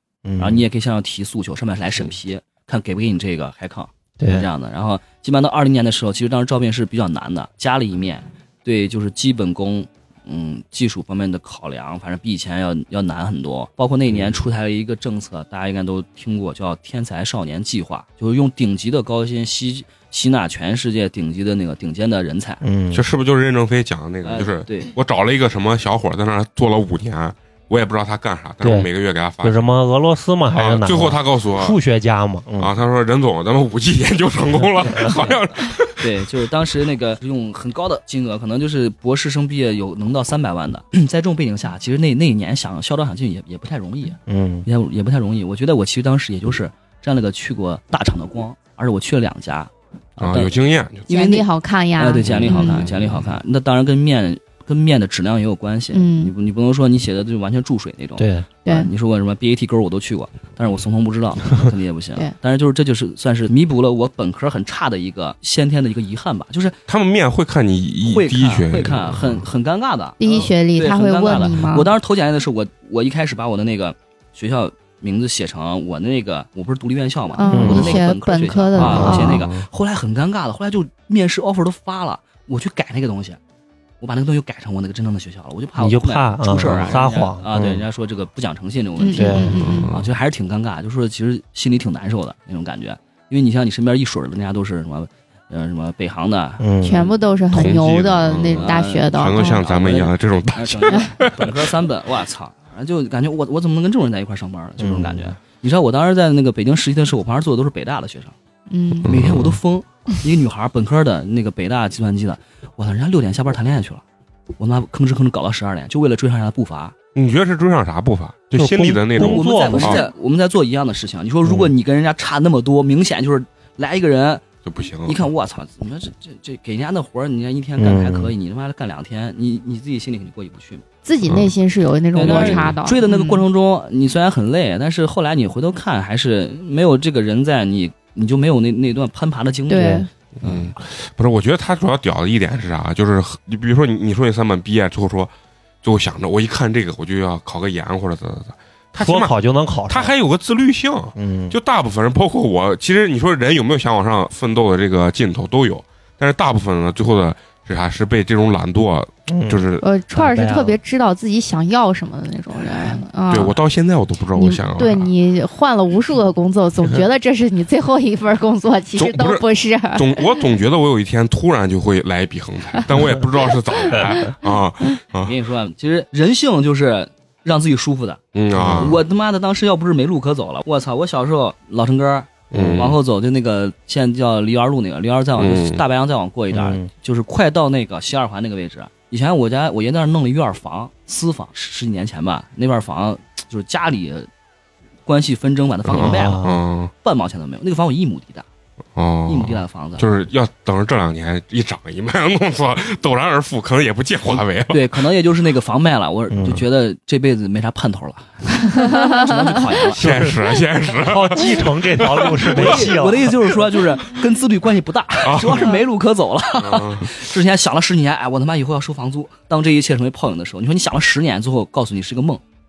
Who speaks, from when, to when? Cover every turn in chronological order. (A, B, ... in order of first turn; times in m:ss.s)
0:00.2-0:00.6 A
0:00.4-0:22.6 B
0:04.2-0:04.5 A
0:22.6-0:23.0 A
0:22.9-0:29.6 C
0:24.2-0:24.9 B
0:28.6-0:32.7 A
0:30.5-0:31.8 C
0:32.6-0:36.1 C
0:36.0-0:50.6 B
0:44.2-0:44.6 A
0:50.2-0:51.0 C
0:51.1-0:51.4 B
0:51.1-0:52.9 D
0:52.0-1:06.8 B
0:52.2-0:53.3 C
0:55.9-0:56.3 D
0:58.2-0:58.5 A
0:58.6-0:58.9 D
1:06.9-1:09.4 C
1:08.0-1:23.4 B
1:10.2-1:11.9 D
1:17.4-1:19.4 D
1:17.5-1:18.0 A
1:18.8-1:19.4 A
1:18.8-1:19.6 C
1:24.0-1:37.1 B
1:25.8-1:27.8 A
1:29.0-1:29.9 D
1:29.1-1:29.7 A
1:29.6-1:30.1 C
1:36.6-1:37.1 A
1:36.8-1:39.7 D
1:37.5-1:41.7 C
1:38.6-1:48.3 B
1:44.8-1:45.3 A
1:48.7-1:49.1 D
1:49.0-1:49.6 C
1:49.0-1:54.0 B
1:54.6-1:56.9 B
1:57.1-2:00.0 C
1:58.5-2:00.0 A
1:59.1-2:04.4 B
2:04.6-2:05.2 C
2:05.0-2:10.8 B
2:07.8-2:08.3 A
2:11.0-2:13.4 D
2:11.2-2:11.5 C
2:12.1-2:20.7 B
2:12.2-2:12.7 C
2:19.7-2:20.1 D
2:19.8-2:20.0 A
2:20.4-2:25.3 C
2:25.8-2:29.3 C
2:29.0-2:30.1 A
2:29.9-2:39.8 C
2:31.1-2:31.6 A
2:39.3-2:40.8 A
2:39.8-2:43.6 D
2:43.3-2:45.1 C
2:44.3-2:50.3 D
2:49.0-2:55.3 C
2:55.2-3:14.3 B
2:58.3-2:59.0 C
2:58.6-2:58.9 A
3:02.5-3:03.0 C
3:05.4-3:05.8 C
3:06.5-3:06.9 A
3:15.0-3:16.4 B
3:15.9-3:16.9 C
3:16.0-3:16.6 A
3:17.0-3:18.4 B
3:18.9-3:24.9 C
3:19.3-3:20.0 B
3:24.7-3:30.0 B
3:26.3-3:26.6 A
3:28.7-3:29.4 D
3:29.9-3:33.5 A
3:30.0-3:33.0 C
3:32.4-3:42.4 B
3:35.2-3:35.8 C
3:36.6-3:37.2 C